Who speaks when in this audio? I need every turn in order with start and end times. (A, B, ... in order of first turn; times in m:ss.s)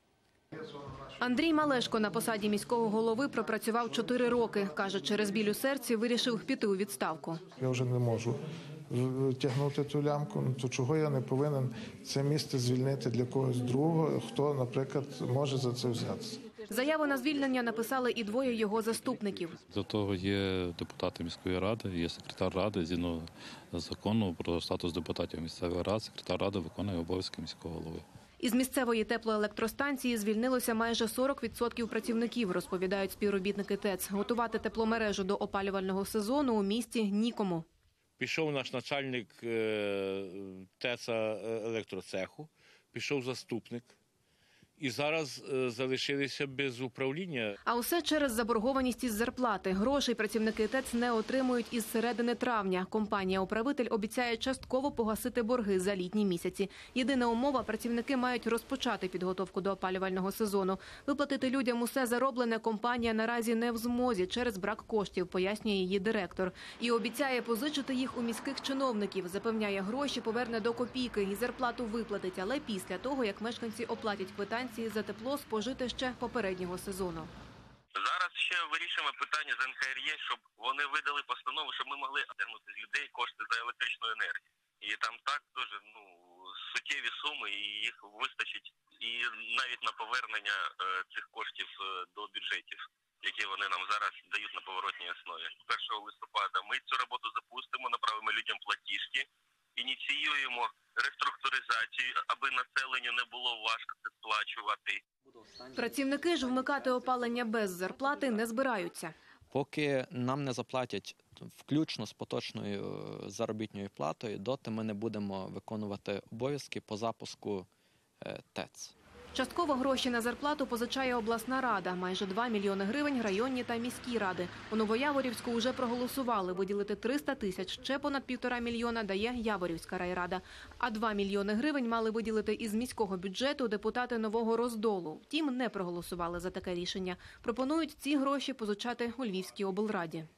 0:00.7-0:01.0 A
0:01.2-0:07.4 B
0:07.6-0:08.4 A
0:08.9-0:16.4 A
0:16.7-0:19.6 B
0:19.7-0:28.0 C
0:28.4-0:37.6 B
0:38.2-0:43.9 D
0:44.8-0:47.5 D
0:47.6-1:17.3 B
1:18.0-1:45.0 E
1:45.7-1:49.1 B
1:49.5-1:57.7 F
1:58.2-1:58.9 F
1:59.3-2:20.3 B